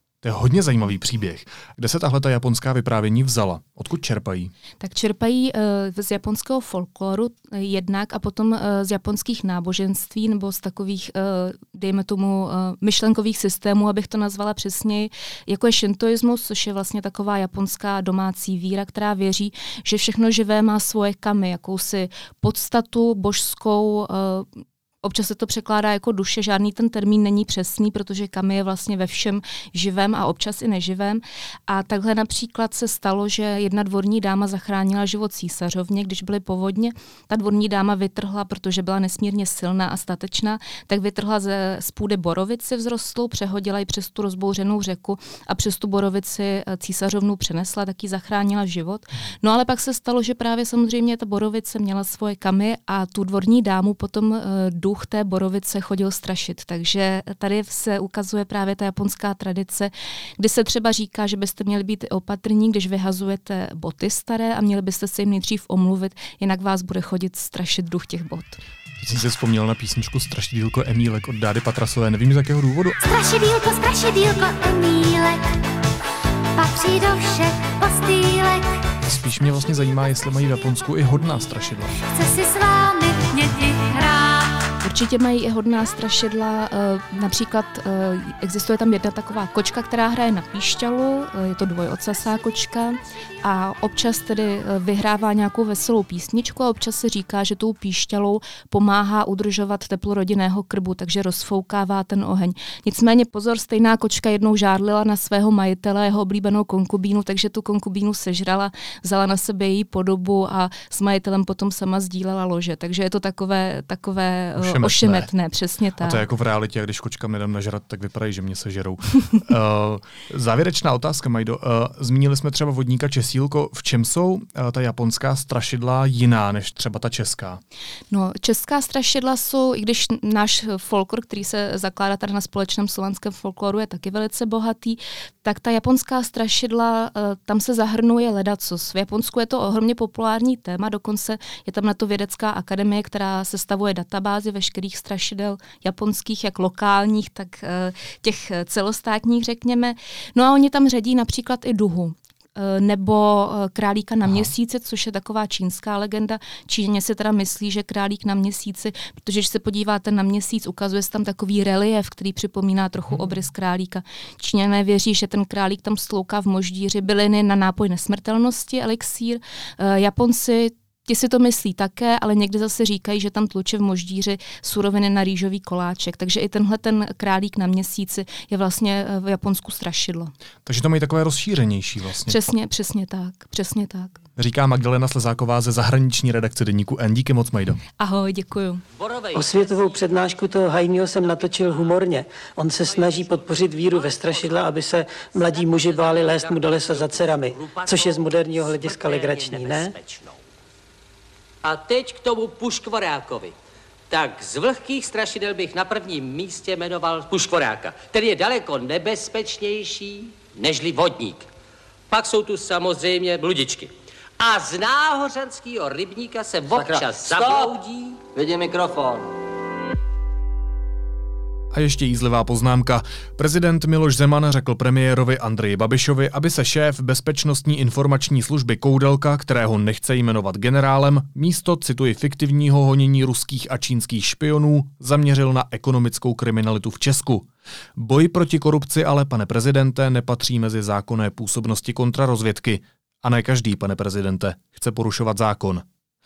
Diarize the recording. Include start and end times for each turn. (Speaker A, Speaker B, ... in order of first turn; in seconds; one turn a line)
Speaker A: 0.2-4.5
Speaker B: 4.8-68.6
Speaker A: 69.0-73.0
Speaker C: 73.0-75.6
Speaker C: 76.5-78.8
Speaker A: 79.0-81.9
Speaker C: 82.0-84.7
Speaker B: 84.8-116.2
Speaker A: 114.6-115.3
Speaker A: 116.0-127.6
Speaker B: 128.1-180.3
Speaker A: 180.7-182.4
Speaker B: 182.3-184.2
Speaker A: 184.4-187.8
Speaker B: 188.0-188.8
Speaker D: 189.0-190.3
Speaker E: 189.3-199.9
Speaker D: 191.3-192.0
Speaker D: 192.8-194.8
Speaker D: 195.4-200.4
Speaker D: 201.6-203.6
Speaker D: 204.1-211.5
Speaker D: 212.1-218.2
Speaker F: 216.7-219.3
Speaker A: 221.7-245.8